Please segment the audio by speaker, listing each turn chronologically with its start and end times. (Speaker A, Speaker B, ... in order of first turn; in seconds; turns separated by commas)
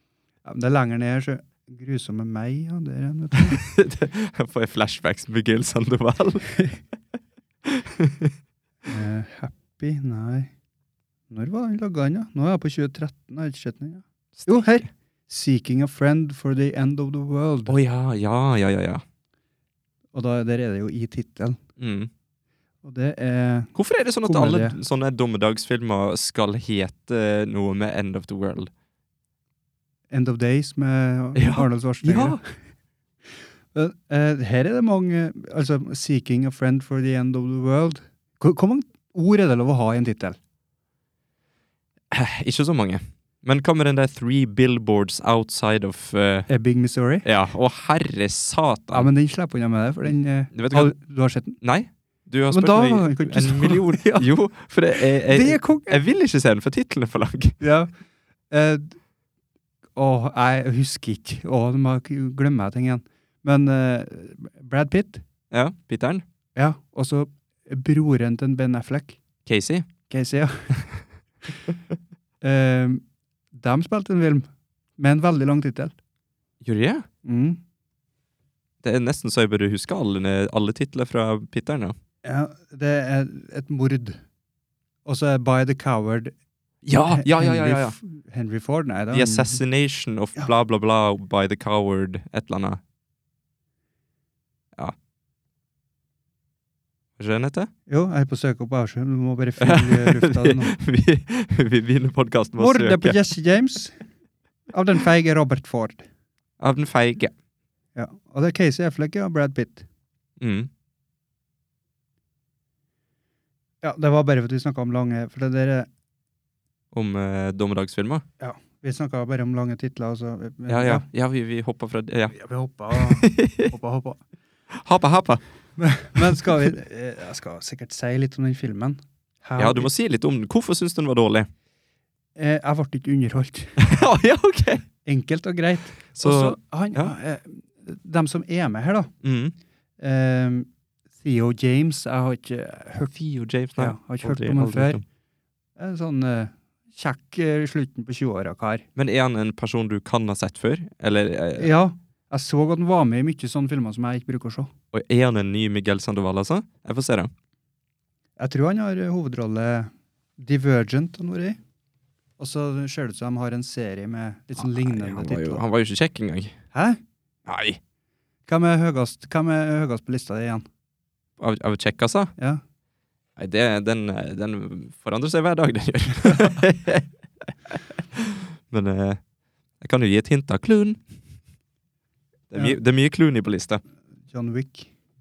Speaker A: 0.5-3.6, Speaker B: 3.3-6.5, Speaker B: 7.7-8.3, Speaker A: 8.9-10.5, Speaker A: 11.3-17.8, Speaker B: 17.7-19.0, Speaker A: 20.1-21.6, Speaker B: 21.8-22.1, Speaker A: 22.8-23.7, Speaker B: 23.8-28.7, Speaker A: 24.2-24.8, Speaker A: 30.1-32.4, Speaker B: 31.3-32.4, Speaker A: 33.8-40.4, Speaker B: 42.1-46.5, Speaker A: 46.5-47.3, Speaker B: 47.2-49.1, Speaker A: 48.9-51.6, Speaker B: 50.5-50.9, Speaker B: 51.6-57.6, Speaker A: 52.5-54.3, Speaker A: 55.0-56.0, Speaker A: 57.6-57.9, Speaker A: 58.5-59.0, Speaker A: 60.0-65.2, Speaker B: 65.5-66.2, Speaker A: 66.6-69.2, Speaker B: 69.5-69.8, Speaker A: 70.1-70.8, Speaker A: 72.4-74.5, Speaker A: 75.0-76.0, Speaker B: 76.6-77.0, Speaker A: 77.2-77.6, Speaker B: 78.8-82.0, Speaker A: 82.2-84.2, Speaker A: 85.0-86.3, Speaker B: 86.8-88.0, Speaker A: 87.1-89.6, Speaker B: 89.1-92.8, Speaker B: 97.2-97.7, Speaker A: 97.9-100.7, Speaker B: 99.6-103.2, Speaker A: 102.6-104.0, Speaker A: 104.7-106.0, Speaker B: 106.6-107.3, Speaker A: 108.0-109.9, Speaker B: 110.4-110.7, Speaker A: 113.8-115.9, Speaker B: 116.9-118.2, Speaker A: 118.4-121.0, Speaker B: 120.7-122.3, Speaker A: 122.3-124.2, Speaker B: 122.9-123.7, Speaker B: 124.7-125.4, Speaker A: 125.8-129.9, Speaker B: 129.6-131.5, Speaker A: 132.3-133.8, Speaker B: 133.8-134.8, Speaker A: 135.0-139.1, Speaker B: 136.2-137.1, Speaker B: 139.2-139.6, Speaker A: 140.0-140.7, Speaker A: 141.2-143.1, Speaker B: 143.1-145.0, Speaker A: 143.8-145.0, Speaker A: 145.8-148.8, Speaker B: 149.0-151.7, Speaker A: 151.6-154.7, Speaker B: 154.9-157.3, Speaker A: 158.4-161.6, Speaker A: 162.4-165.6, Speaker B: 164.6-166.6, Speaker A: 166.7-167.0, Speaker B: 167.5-167.8, Speaker A: 168.5-170.6, Speaker B: 171.4-172.3, Speaker B: 173.4-179.2, Speaker B: 179.8-181.0, Speaker B: 182.5-183.8, Speaker A: 184.3-184.9